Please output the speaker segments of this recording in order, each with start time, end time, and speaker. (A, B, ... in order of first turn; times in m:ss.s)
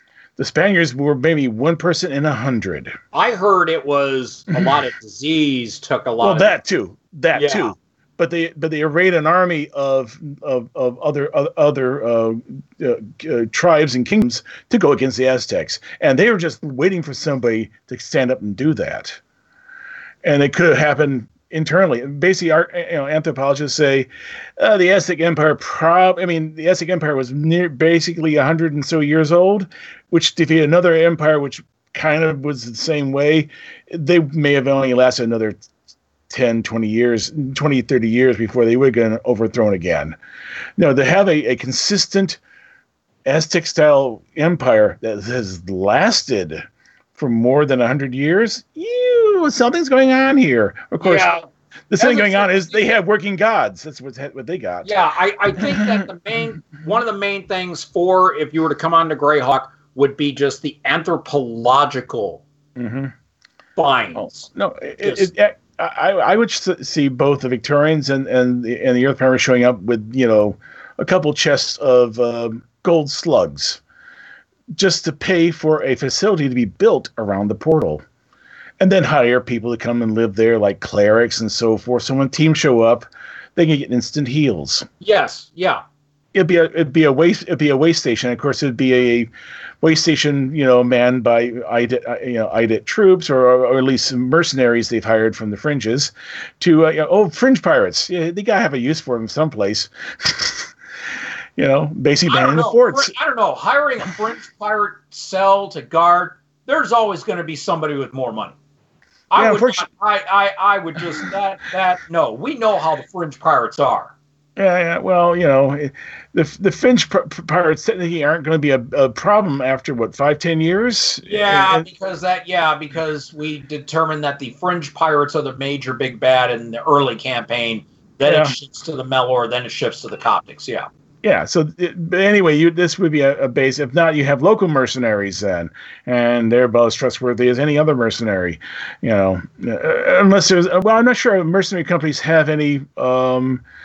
0:00.4-0:02.9 A
0:03.1-0:06.5 B
0:06.2-0:19.2 A
0:07.3-0:07.7 B
0:20.2-0:35.6 A
0:36.3-0:40.2 A
0:40.8-0:42.4 A
0:43.2-0:51.3 A
0:51.0-0:52.8 B
0:51.9-0:54.9 A
0:54.8-1:02.4 B
0:55.6-0:56.0 A
1:02.8-1:03.1 A
1:03.8-1:04.5 B
1:04.1-1:13.8 A
1:05.0-1:05.3 B
1:14.7-1:18.0 A
1:18.8-1:24.9 A
1:25.0-1:25.8 B
1:26.3-1:29.3 A
1:29.8-1:40.7 A
1:41.6-1:43.1 A
1:42.3-1:48.5 B
1:49.3-1:54.1 B
1:49.4-1:49.9 A
1:54.6-2:01.9 A
2:01.2-2:10.9 B
2:08.2-2:08.5 A
2:11.2-2:23.6 A